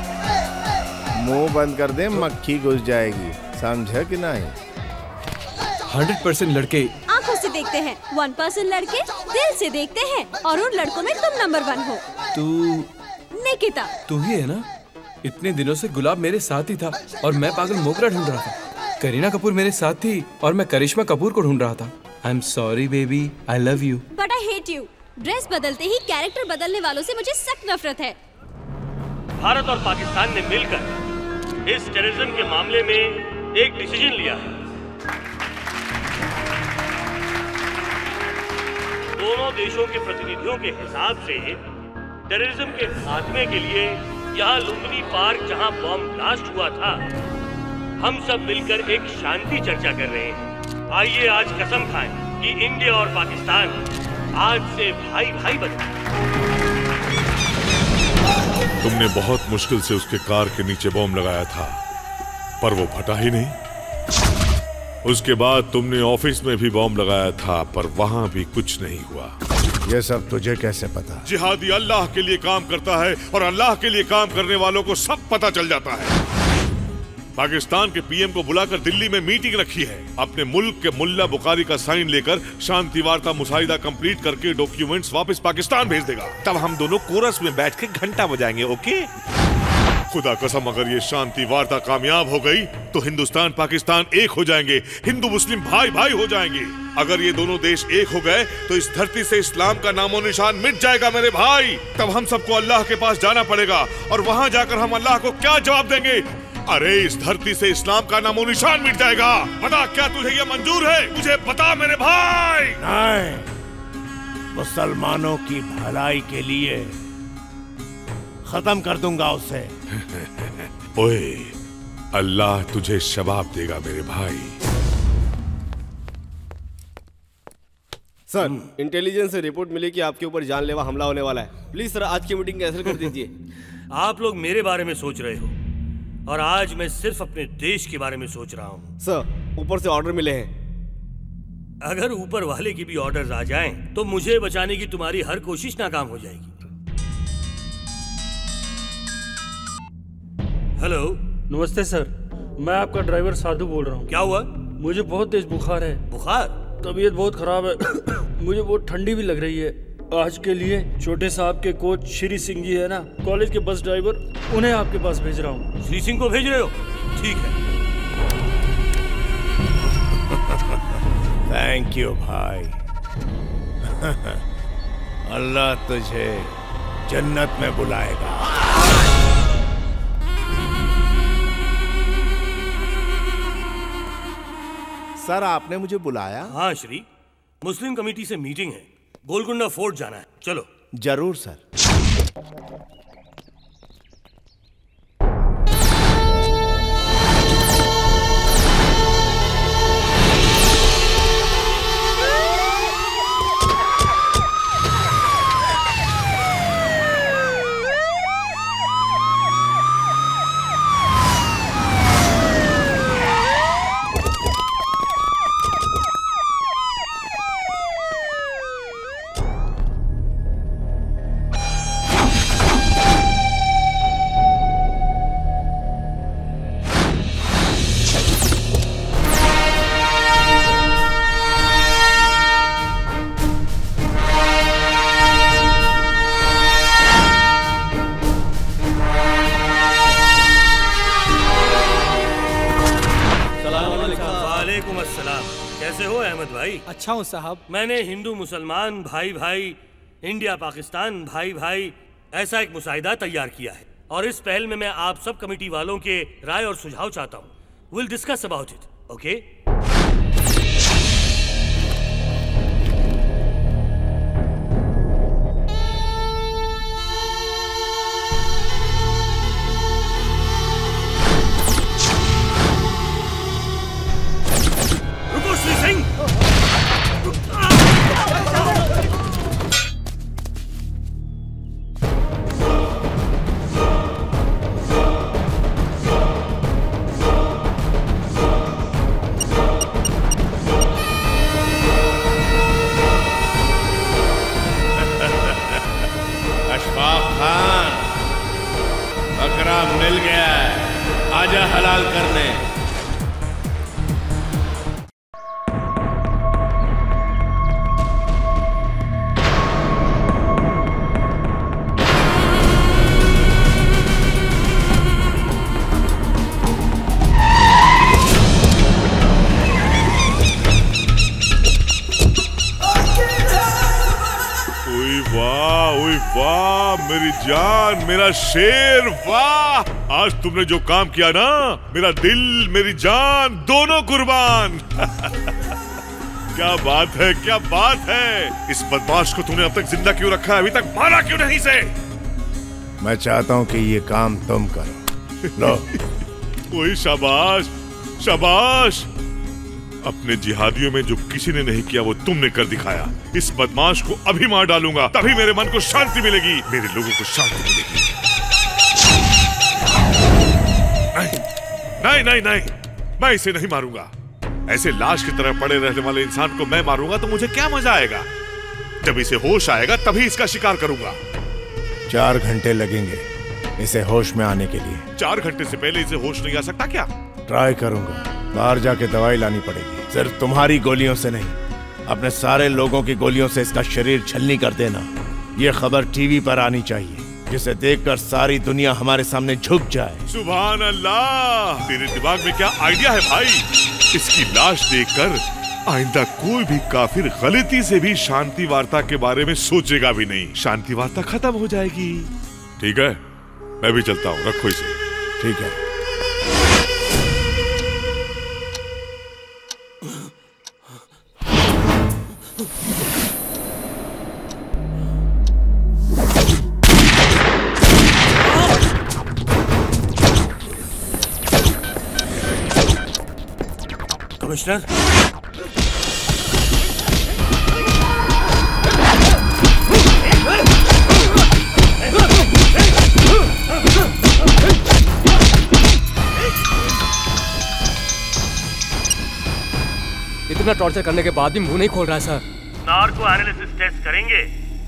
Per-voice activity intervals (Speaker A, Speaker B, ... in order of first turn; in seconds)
Speaker A: 1.1-4.6, 69.9-71.3, 112.8-113.5, 114.5-117.0, 118.5-119.7, 170.3-170.8, 171.5-172.8, 173.8-174.4, 175.2-176.5, 177.1-178.8, 185.2-186.6, 191.0-191.6, 295.0-296.0, 296.7-298.1, 299.4-302.6, 343.0-345.1, 345.6-345.9, 372.1-373.3, 373.8-375.1, 377.5-390.2, 405.4-405.8
Speaker B: 5.9-7.0, 12.3-12.9, 14.1-14.7, 15.2-24.1
Speaker C: 7.1-12.0, 13.3-13.9, 24.1-28.2
Speaker D: 29.4-30.9, 31.7-34.5, 39.2-41.6, 42.3-47.0, 48.0-53.8, 54.4-55.9, 128.4-128.7, 132.9-133.1, 133.9-135.6, 136.3-138.9, 141.8-146.5, 150.8-151.2, 154.1-154.5, 156.1-156.6, 165.8-167.6, 186.5-187.1, 187.6-190.7, 243.8-246.8, 247.7-259.4, 275.4-276.0, 424.4-424.9, 442.8-444.5
Speaker E: 58.8-61.8, 62.6-63.5, 65.0-69.3, 71.2-76.1, 77.4-89.1, 90.1-112.8, 120.0-121.5, 122.1-124.6, 324.9-335.5, 336.5-341.9, 346.7-349.1, 350.0-358.1, 361.1-361.4, 362.0-364.1, 364.7-368.3, 369.0-371.2, 375.2-377.1, 390.3-403.2, 403.8-405.0
Speaker F: 128.3-133.3, 139.0-140.5, 243.6-244.5
Speaker G: 151.5-154.1, 154.8-156.0, 156.8-165.7
Speaker H: 440.5-442.4